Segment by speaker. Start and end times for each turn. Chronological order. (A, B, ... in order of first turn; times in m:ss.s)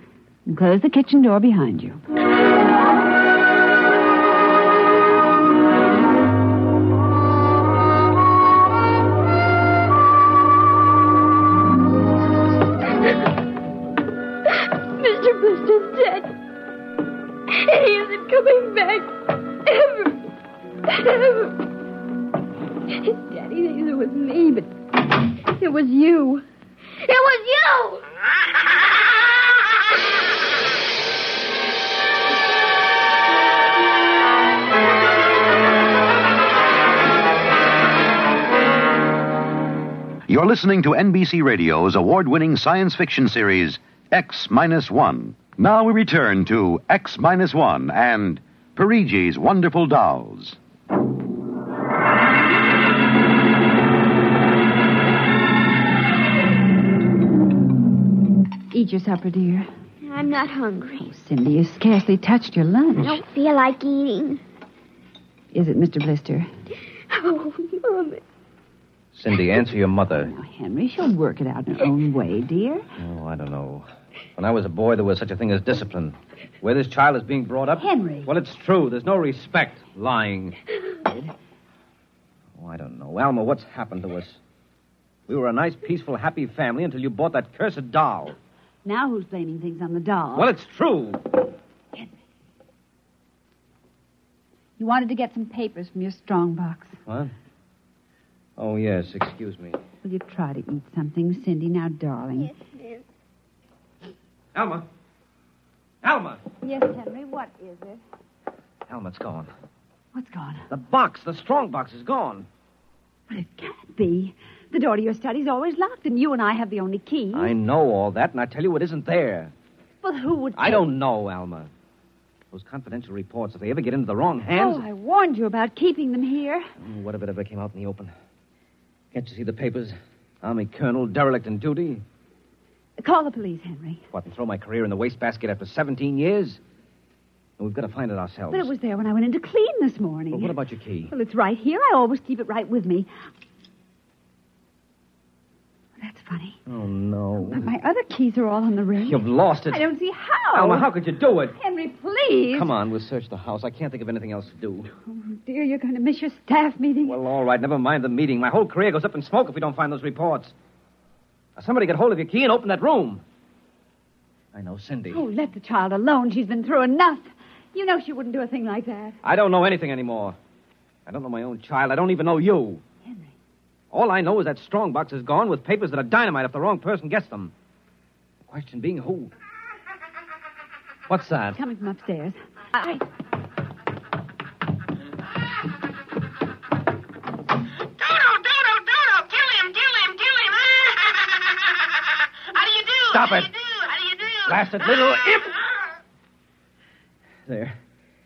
0:00.4-0:02.0 A
0:14.6-0:16.4 B
0:17.5-0:20.2 B
0:20.8-0:21.6 B
0:22.9-0:24.7 B
0:25.3-0:26.4 B
0:27.0-0:28.0 B
0:40.3-0:50.6 C
0:58.7-0:59.7 A
1:00.0-1:01.1 B
1:01.0-1:03.2 A
1:03.0-1:04.4 B
1:05.5-1:06.5 A
1:07.1-1:08.2 B
1:09.1-1:10.3 D
1:10.2-1:12.8 A
1:13.0-1:20.6 D
1:17.8-1:18.3 A
1:21.0-1:21.3 A
1:22.6-1:24.4 D
1:25.3-1:28.4 D
1:28.8-1:30.5 A
1:30.3-1:31.3 D
1:34.8-1:37.0 A
1:37.1-1:37.3 D
1:38.6-1:39.8 D
1:40.0-1:42.5 A
1:42.4-1:43.0 B
1:44.5-1:44.8 D
1:46.0-1:46.4 D
1:46.6-1:48.0 A
1:48.9-1:49.5 D
1:50.1-1:50.6 A
1:50.7-1:52.5 D
1:53.3-1:57.5 A
1:57.3-1:59.5 D
2:00.0-2:00.9 A
2:00.6-2:01.7 D
2:02.5-2:04.8 D
2:04.5-2:06.7 A
2:06.8-2:08.1 D
2:09.1-2:12.0 D
2:13.0-2:14.0 A
2:14.1-2:16.6 D
2:17.6-2:18.7 D
2:18.5-2:20.6 A
2:20.3-2:21.1 D
2:21.1-2:23.1 A
2:26.0-2:26.6 A
2:26.7-2:27.6 D
2:27.4-2:30.9 A
2:29.1-2:29.8 D
2:30.5-2:31.6 D
2:31.6-2:32.7 A
2:32.5-2:34.9 D
2:35.0-2:37.2 A
2:37.0-2:40.5 D
2:41.6-2:43.2 D
2:44.5-2:45.2 D
2:45.1-2:49.2 A
2:49.2-2:50.4 D
2:51.0-2:52.8 D
2:53.0-2:53.3 A
2:53.9-2:57.5 D
2:58.5-2:59.3 D
3:01.1-3:01.6 D
3:01.6-3:03.0 A
3:08.0-3:11.8 E
3:12.5-3:15.4 E
3:13.1-3:13.5 D
3:14.5-3:15.6 D
3:17.5-3:17.8 D